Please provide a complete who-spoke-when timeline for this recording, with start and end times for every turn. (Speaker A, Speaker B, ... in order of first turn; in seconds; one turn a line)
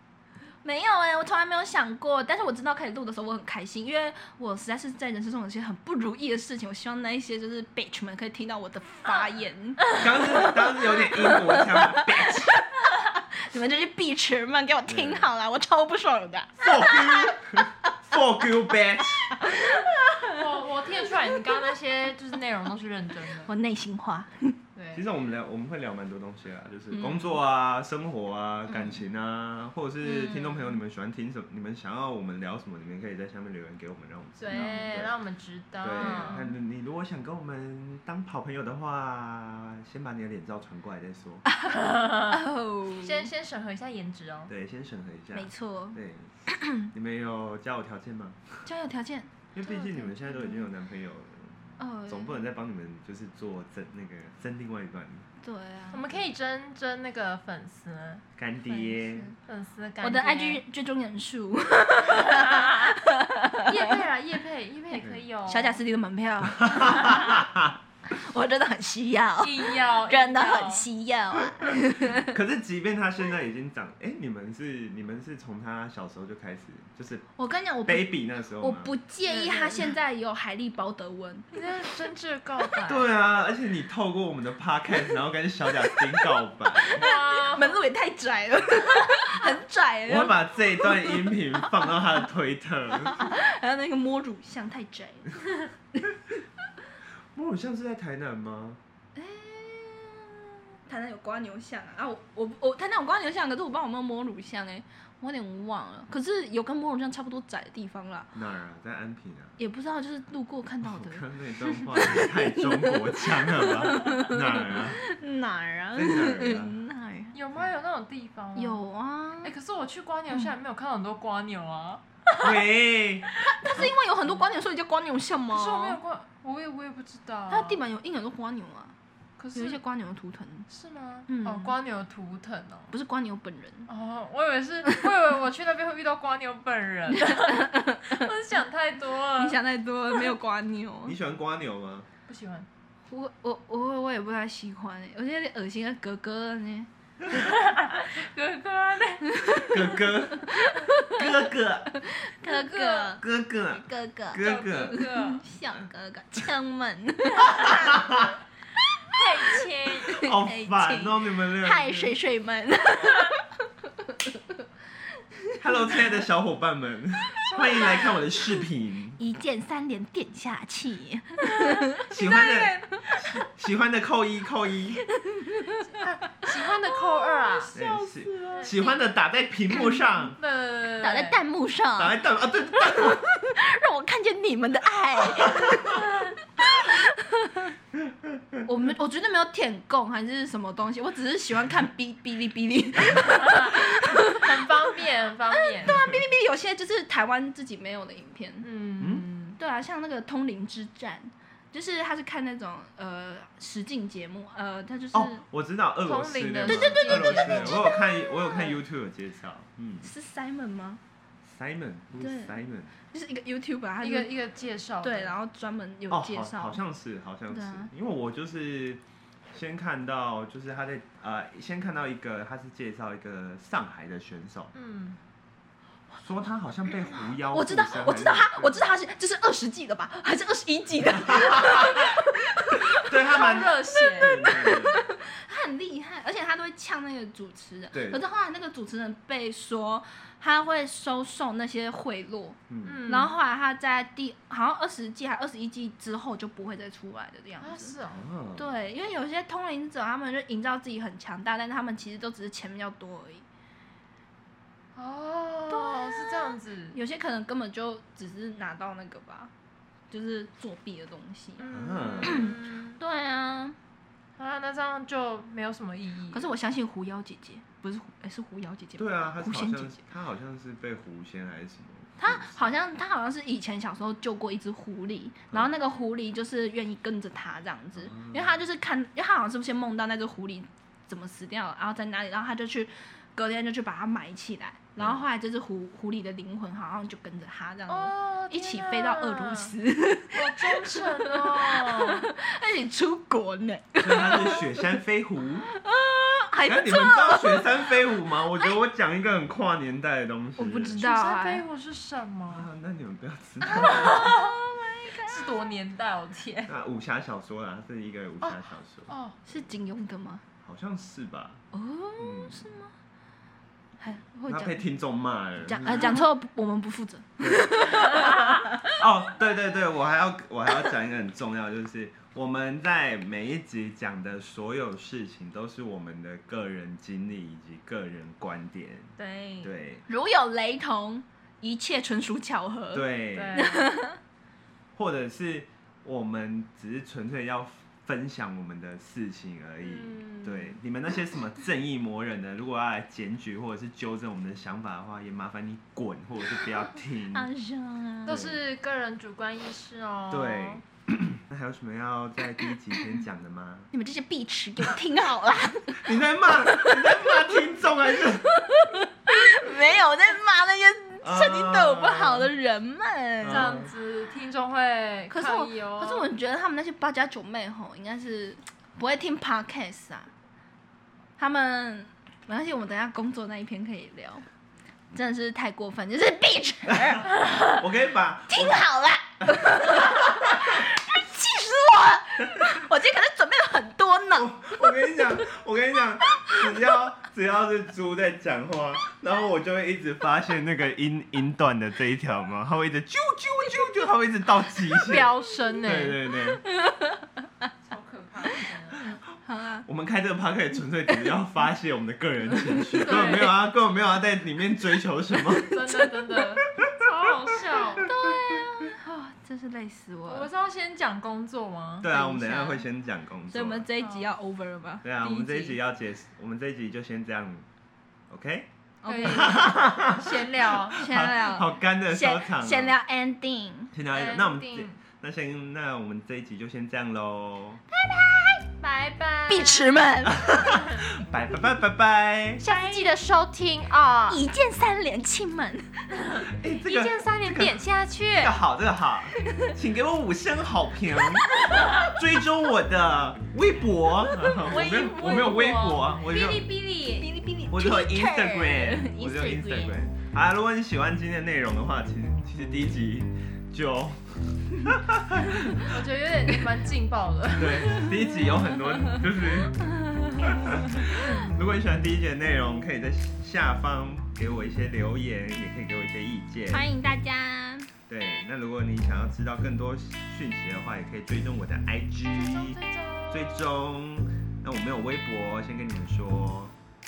Speaker A: 0.5-17.4
Speaker B: 10.0-12.6
Speaker B: 14.9-15.3
Speaker B: 16.6-19.3
Speaker A: 19.3-20.2
Speaker C: 20.2-23.5
Speaker A: 23.4-24.6
Speaker C: 24.8-25.1
Speaker B: 24.9-35.1
Speaker C: 26.9-27.4
Speaker A: 28.7-29.0
Speaker C: 34.4-36.5
Speaker B: 35.8-41.4
Speaker A: 41.6-43.3
Speaker C: 41.8-42.4
Speaker C: 43.0-44.5
Speaker B: 44.5-46.3
Speaker A: 45.3-46.9
Speaker B: 46.9-48.7
Speaker A: 48.6-49.3
Speaker B: 49.5-55.3
Speaker C: 49.6-50.4
Speaker A: 51.8-52.4
Speaker A: 55.4-56.0
Speaker C: 55.9-58.2
Speaker B: 58.4-59.3
Speaker A: 58.6-59.4
Speaker C: 59.5-60.6
Speaker A: 60.0-63.8
Speaker C: 62.3-62.6
Speaker C: 63.6-65.8
Speaker B: 64.9-65.2
Speaker A: 65.5-67.5
Speaker B: 66.7-67.7
Speaker A: 68.1-72.3
Speaker C: 69.4-70.9
Speaker B: 72.0-77.3
Speaker A: 77.4-81.5
Speaker B: 77.8-78.9
Speaker C: 79.2-80.0
Speaker C: 81.5-83.1
Speaker B: 82.9-87.1
Speaker C: 86.8-87.8
Speaker A: 86.9-91.8
Speaker B: 90.1-93.2
Speaker A: 93.1-95.3
Speaker B: 97.3-98.8
Speaker A: 99.2-108.3
Speaker B: 108.3-109.6
Speaker A: 109.6-117.3
Speaker B: 110.8-115.0
Speaker B: 116.0-116.8
Speaker C: 117.3-118.8
Speaker A: 118.6-119.5
Speaker C: 119.4-122.0
Speaker B: 122.4-123.9
Speaker A: 123.5-126.0
Speaker C: 125.5-127.8
Speaker A: 127.5-128.9
Speaker C: 129.4-129.8
Speaker A: 129.5-130.7
Speaker C: 130.7-132.9
Speaker A: 131.3-131.8
Speaker A: 132.9-133.9
Speaker C: 133.9-139.6
Speaker A: 137.1-138.3
Speaker A: 139.3-141.2
Speaker B: 141.1-142.1
Speaker C: 142.3-142.7
Speaker A: 143.1-146.9
Speaker C: 147.3-149.9
Speaker B: 149.7-150.5
Speaker A: 150.4-151.2
Speaker B: 151.1-151.9
Speaker A: 152.1-158.0
Speaker C: 152.4-153.2
Speaker B: 153.2-155.0
Speaker C: 154.4-155.4
Speaker B: 157.7-158.3
Speaker C: 159.1-160.2
Speaker A: 160.0-164.3
Speaker B: 160.1-162.2
Speaker C: 163.0-163.3
Speaker B: 165.6-169.2
Speaker C: 167.4-168.3
Speaker A: 169.2-173.4
Speaker C: 171.6-171.8
Speaker B: 172.1-175.0
Speaker A: 175.1-176.2
Speaker C: 176.0-177.8
Speaker A: 176.9-179.0
Speaker B: 177.7-180.4
Speaker C: 178.5-178.8
Speaker A: 179.7-180.1
Speaker C: 180.4-181.4
Speaker A: 181.0-182.2
Speaker B: 182.0-183.2
Speaker A: 182.8-187.7
Speaker A: 188.7-194.4
Speaker C: 193.4-196.0
Speaker A: 195.8-198.7
Speaker B: 195.9-196.2
Speaker C: 198.6-199.6
Speaker B: 199.0-199.2
Speaker A: 199.6-205.4
Speaker B: 205.1-210.1
Speaker C: 206.0-208.8
Speaker A: 206.7-208.0
Speaker A: 210.0-211.0
Speaker B: 211.4-212.9
Speaker A: 212.2-212.6
Speaker A: 213.1-214.3
Speaker C: 214.0-215.3
Speaker A: 215.0-216.8
Speaker B: 216.1-224.7
Speaker A: 217.5-217.9
Speaker C: 224.7-225.2
Speaker B: 226.2-228.9
Speaker A: 227.5-233.0
Speaker B: 231.2-231.9
Speaker B: 233.1-235.0
Speaker C: 233.1-234.4
Speaker A: 234.2-248.0
Speaker B: 237.9-238.2
Speaker B: 242.7-243.1
Speaker C: 242.8-243.4
Speaker C: 247.6-248.3
Speaker B: 248.1-248.7
Speaker A: 248.6-253.4
Speaker C: 254.9-257.0
Speaker A: 255.7-259.5
Speaker A: 260.1-261.7
Speaker C: 261.6-263.0
Speaker B: 261.7-262.5
Speaker A: 262.2-263.8
Speaker C: 264.4-266.5
Speaker A: 266.3-270.0
Speaker B: 269.0-272.7
Speaker A: 272.2-294.7
Speaker B: 278.0-278.5
Speaker B: 285.0-285.2
Speaker C: 287.9-289.8
Speaker C: 290.3-292.3
Speaker B: 294.0-295.7
Speaker A: 295.7-297.8
Speaker B: 296.7-301.0
Speaker A: 300.6-301.6
Speaker C: 300.9-302.7
Speaker B: 302.5-304.3
Speaker A: 303.6-305.6
Speaker C: 303.8-304.5
Speaker C: 305.2-306.7
Speaker B: 306.7-309.1
Speaker C: 308.4-309.4
Speaker A: 309.4-310.4
Speaker B: 310.6-311.6
Speaker A: 311.7-312.9
Speaker B: 312.2-312.7
Speaker A: 314.0-314.8
Speaker B: 314.5-316.2
Speaker A: 315.6-318.7
Speaker B: 317.4-318.0
Speaker B: 319.0-330.0
Speaker C: 329.2-329.7
Speaker A: 330.1-334.2
Speaker B: 332.9-333.6
Speaker C: 333.3-333.9
Speaker B: 334.9-347.5
Speaker C: 339.8-340.8
Speaker A: 347.3-348.4
Speaker C: 348.2-350.8
Speaker B: 348.3-348.6
Speaker B: 350.3-353.9
Speaker A: 353.9-357.3
Speaker B: 356.0-358.6
Speaker A: 358.1-363.8
Speaker B: 361.2-362.5
Speaker B: 363.4-363.9
Speaker C: 363.4-366.3
Speaker A: 365.3-370.3
Speaker A: 371.4-374.4
Speaker A: 375.1-377.3
Speaker B: 377.6-378.9
Speaker A: 378.5-385.2
Speaker B: 384.3-396.6
Speaker C: 395.0-396.2
Speaker A: 396.7-397.5
Speaker C: 397.8-399.2
Speaker A: 399.4-399.9
Speaker B: 399.9-405.8
Speaker A: 401.1-401.4
Speaker A: 403.0-403.5
Speaker C: 405.7-408.1
Speaker A: 405.8-406.1
Speaker A: 408.0-410.5
Speaker C: 410.3-412.1
Speaker B: 412.0-413.9
Speaker A: 412.1-412.8
Speaker A: 413.5-415.1
Speaker C: 414.0-414.3
Speaker B: 415.0-417.7
Speaker C: 415.2-415.8
Speaker B: 418.3-418.7
Speaker A: 419.0-419.6
Speaker C: 419.1-421.1
Speaker B: 419.2-423.0
Speaker A: 420.9-423.9
Speaker B: 423.9-427.8
Speaker C: 424.1-425.0
Speaker A: 428.0-428.6
Speaker C: 428.8-429.9
Speaker A: 429.5-430.7
Speaker B: 431.2-432.7
Speaker C: 432.6-434.4
Speaker A: 432.7-433.1
Speaker A: 434.3-436.1
Speaker C: 436.4-438.6
Speaker B: 436.6-437.8
Speaker B: 438.4-446.7
Speaker A: 444.6-445.8
Speaker C: 444.9-447.3
Speaker A: 447.1-449.9
Speaker B: 447.7-455.8
Speaker C: 455.8-458.1
Speaker B: 457.6-459.8
Speaker A: 460.1-460.6
Speaker B: 460.5-466.9
Speaker A: 466.7-467.9
Speaker B: 468.1-472.8
Speaker C: 472.3-473.7
Speaker B: 473.3-476.8